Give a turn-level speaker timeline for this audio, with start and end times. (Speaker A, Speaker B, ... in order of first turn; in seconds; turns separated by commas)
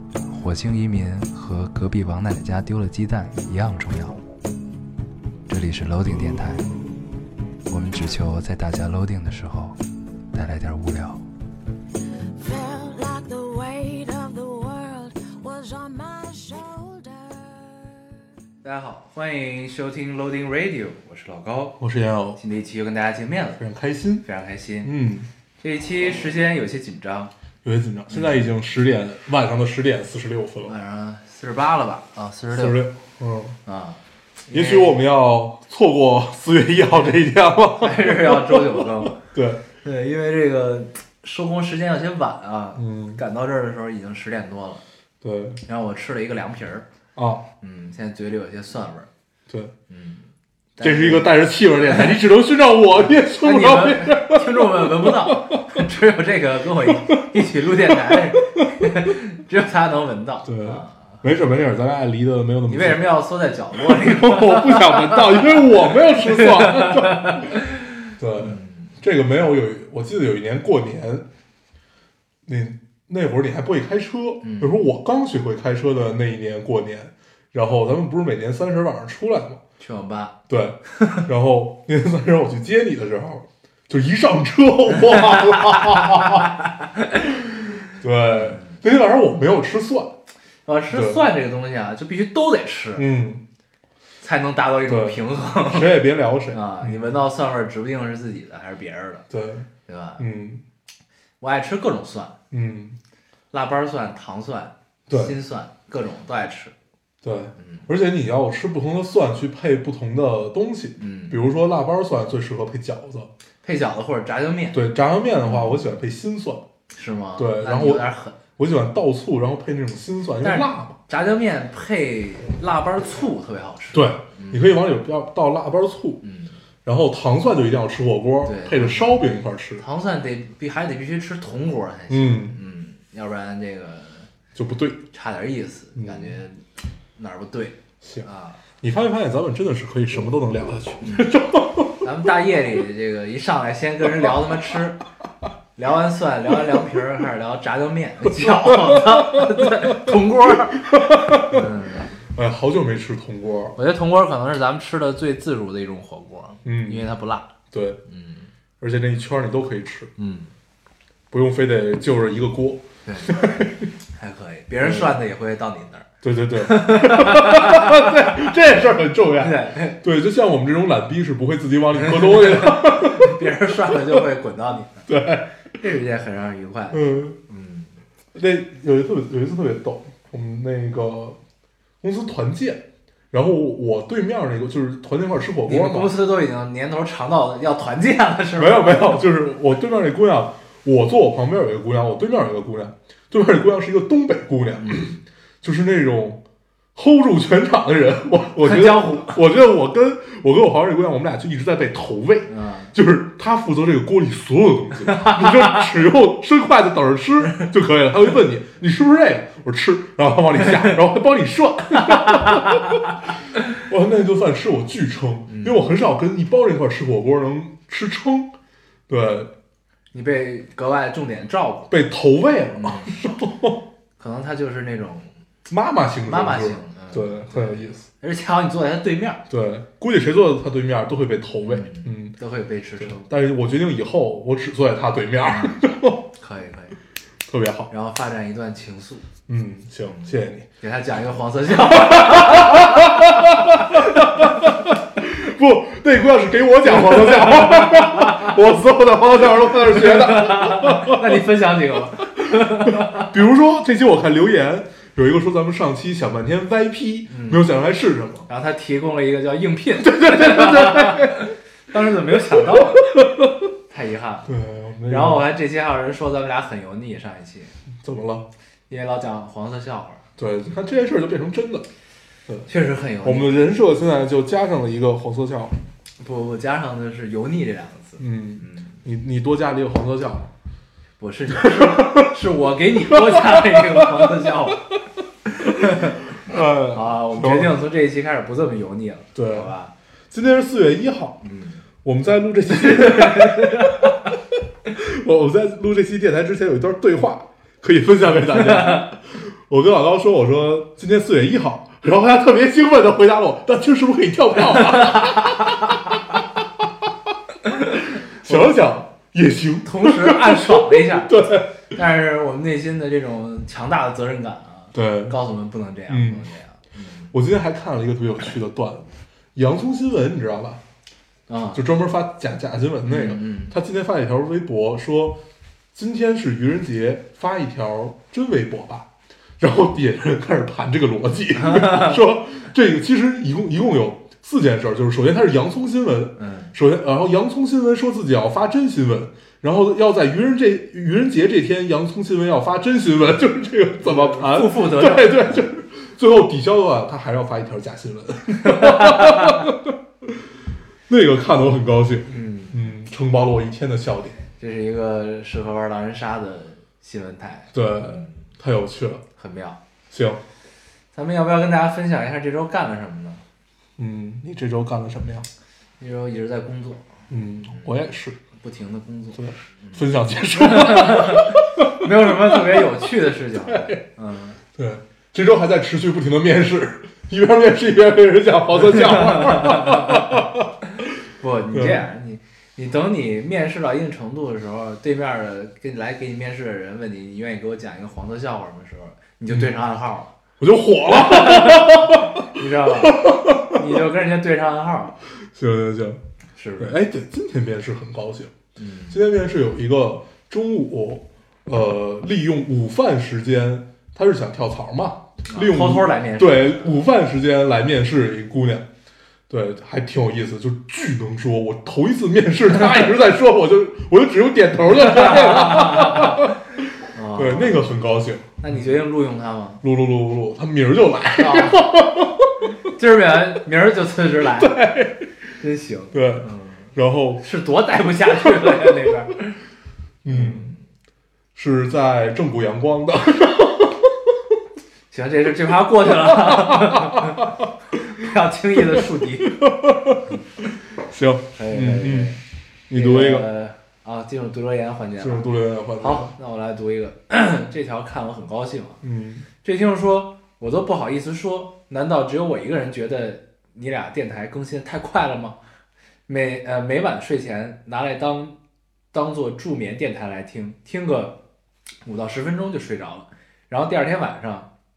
Speaker A: 0.3-4.2, Speaker A: 5.5-6.7, Speaker A: 7.7-9.8, Speaker A: 10.3-11.3, Speaker B: 12.3-18.2, Speaker A: 18.6-21.8, Speaker C: 21.8-22.4, Speaker A: 22.4-23.6, Speaker C: 23.6-24.3, Speaker A: 24.2-24.9, Speaker C: 24.8-25.3, Speaker A: 25.6-27.3, Speaker C: 27.6-30.8, Speaker A: 28.1-28.5, Speaker A: 30.6-32.8, Speaker C: 32.5-33.6, Speaker A: 33.6-35.0, Speaker C: 34.5-39.6, Speaker A: 37.8-39.2, Speaker A: 39.8-44.8, Speaker C: 42.8-43.2, Speaker C: 45.2-45.6, Speaker A: 45.7-46.9, Speaker C: 47.2-47.5, Speaker A: 47.6-49.1, Speaker A: 49.9-51.3, Speaker C: 50.8-55.8, Speaker A: 51.9-52.1, Speaker A: 53.3-61.1, Speaker C: 56.9-59.1, Speaker C: 60.5-63.2, Speaker A: 62.7-67.8, Speaker C: 63.7-67.6, Speaker C: 68.2-71.3, Speaker A: 68.4-68.9, Speaker C: 72.5-79.6, Speaker A: 74.4-74.8, Speaker A: 79.8-80.4, Speaker C: 80.5-86.5, Speaker A: 81.0-81.2, Speaker A: 85.7-86.4, Speaker C: 87.2-90.2, Speaker A: 88.3-88.8, Speaker A: 90.7-93.1, Speaker C: 90.9-91.2, Speaker C: 93.0-93.4, Speaker A: 94.2-95.9, Speaker C: 94.9-97.0, Speaker A: 96.5-99.2, Speaker C: 99.3-99.7, Speaker A: 99.9-100.2, Speaker C: 100.2-100.6, Speaker A: 101.4-102.4, Speaker C: 102.5-103.0, Speaker A: 103.5-106.7, Speaker C: 105.1-105.4, Speaker C: 107.2-113.3, Speaker A: 107.6-107.9, Speaker A: 111.0-111.4, Speaker A: 113.6-114.8, Speaker C: 114.7-116.7, Speaker A: 115.4-115.9, Speaker A: 116.9-118.4, Speaker C: 117.4-118.0, Speaker C: 118.6-121.0, Speaker A: 120.4-124.7, Speaker C: 123.9-126.2, Speaker A: 126.2-126.6, Speaker C: 126.8-129.8, Speaker A: 128.4-129.2, Speaker A: 129.8-134.3, Speaker C: 132.1-132.6, Speaker C: 134.5-135.1, Speaker A: 135.1-136.6, Speaker C: 136.0-136.4, Speaker A: 137.2-138.6, Speaker C: 138.8-142.1, Speaker A: 141.0-141.4, Speaker A: 142.0-145.0, Speaker A: 145.8-152.2, Speaker C: 148.3-151.7, Speaker C: 152.3-153.8, Speaker A: 153.8-157.5, Speaker C: 156.7-157.1, Speaker C: 157.7-158.0, Speaker A: 158.1-158.5, Speaker C: 158.8-160.1, Speaker A: 160.2-160.5, Speaker C: 161.3-163.9, Speaker A: 163.1-163.4, Speaker A: 164.1-168.6, Speaker C: 164.8-165.2, Speaker C: 166.2-174.2, Speaker A: 169.4-170.0, Speaker A: 171.9-175.1, Speaker C: 175.1-175.5, Speaker A: 175.7-178.0, Speaker C: 176.9-177.4, Speaker C: 178.3-181.4, Speaker C: 182.0-186.1, Speaker A: 185.7-189.3, Speaker C: 188.6-196.4, Speaker A: 194.8-195.2, Speaker C: 196.9-213.0, Speaker A: 198.6-199.4, Speaker A: 202.5-202.9, Speaker A: 205.1-205.8, Speaker A: 212.1-213.0, Speaker C: 213.6-218.6, Speaker A: 215.5-215.9, Speaker C: 219.1-219.5, Speaker A: 220.1-221.9, Speaker C: 221.9-223.8, Speaker A: 222.8-223.2, Speaker A: 224.2-225.3, Speaker C: 225.7-228.1, Speaker A: 226.2-229.4, Speaker C: 229.5-232.3, Speaker A: 231.6-233.2, Speaker C: 233.0-236.3, Speaker A: 235.4-237.0, Speaker C: 237.5-237.9, Speaker A: 237.9-239.3, Speaker C: 239.5-240.7, Speaker A: 240.1-244.7, Speaker C: 241.9-251.4, Speaker A: 246.9-248.6, Speaker A: 249.7-253.3, Speaker C: 252.6-258.5, Speaker A: 257.3-257.7, Speaker A: 258.5-263.2, Speaker C: 260.0-261.5, Speaker C: 262.1-263.7, Speaker A: 263.9-264.5, Speaker C: 264.5-265.5, Speaker A: 265.1-267.8, Speaker C: 268.0-268.5, Speaker A: 268.9-270.3, Speaker C: 270.4-271.9, Speaker A: 272.7-273.5, Speaker C: 273.2-275.8, Speaker A: 276.2-279.0, Speaker C: 278.2-280.5, Speaker A: 281.2-284.8, Speaker C: 281.6-282.3, Speaker C: 283.1-284.3, Speaker A: 285.5-286.3, Speaker C: 285.6-287.8, Speaker A: 286.9-289.9, Speaker C: 289.4-289.7, Speaker C: 290.3-291.4, Speaker A: 291.4-291.8, Speaker C: 292.0-306.4, Speaker A: 292.8-294.3, Speaker A: 298.4-299.1, Speaker A: 304.9-305.6, Speaker A: 307.7-308.8, Speaker C: 307.9-311.8, Speaker A: 309.9-317.3, Speaker C: 314.9-315.4, Speaker C: 316.1-316.5, Speaker C: 317.3-320.8, Speaker A: 321.5-321.8, Speaker C: 321.7-325.4, Speaker A: 323.1-323.8, Speaker C: 325.9-350.4, Speaker A: 331.5-332.2, Speaker A: 336.4-336.7, Speaker A: 344.0-345.7, Speaker A: 348.5-349.7, Speaker C: 351.1-354.4, Speaker A: 352.3-352.9, Speaker A: 354.5-358.5, Speaker C: 357.7-359.2, Speaker A: 359.4-359.8, Speaker C: 360.1-360.4, Speaker A: 361.1-363.4, Speaker C: 364.0-365.5, Speaker A: 366.0-367.9, Speaker C: 367.3-368.4, Speaker A: 368.6-374.6, Speaker C: 369.4-372.9, Speaker C: 373.6-374.0, Speaker C: 374.8-381.1, Speaker A: 379.0-380.3, Speaker A: 381.4-390.3, Speaker C: 381.7-382.0, Speaker C: 389.5-389.8, Speaker C: 390.6-394.0, Speaker A: 391.1-395.2, Speaker C: 395.4-396.2, Speaker A: 396.6-397.0, Speaker C: 396.8-398.5, Speaker A: 398.8-399.2, Speaker C: 399.1-408.9, Speaker A: 405.5-407.1, Speaker C: 409.5-419.0, Speaker A: 414.9-416.6, Speaker A: 417.1-418.0, Speaker A: 418.6-419.8, Speaker C: 419.8-422.5, Speaker A: 421.4-422.0, Speaker A: 422.8-424.8, Speaker C: 424.5-425.3, Speaker A: 425.6-429.6, Speaker C: 426.1-427.4, Speaker C: 428.4-429.1, Speaker C: 430.2-430.7, Speaker A: 430.3-430.9, Speaker C: 431.6-434.4, Speaker A: 435.1-439.7, Speaker C: 436.2-440.4, Speaker C: 440.9-442.4, Speaker A: 441.6-445.5, Speaker C: 442.9-443.5, Speaker C: 445.2-446.3, Speaker A: 446.0-449.0, Speaker C: 449.0-449.5, Speaker A: 449.6-455.6, Speaker A: 456.3-458.6, Speaker A: 459.1-461.4, Speaker A: 462.1-464.7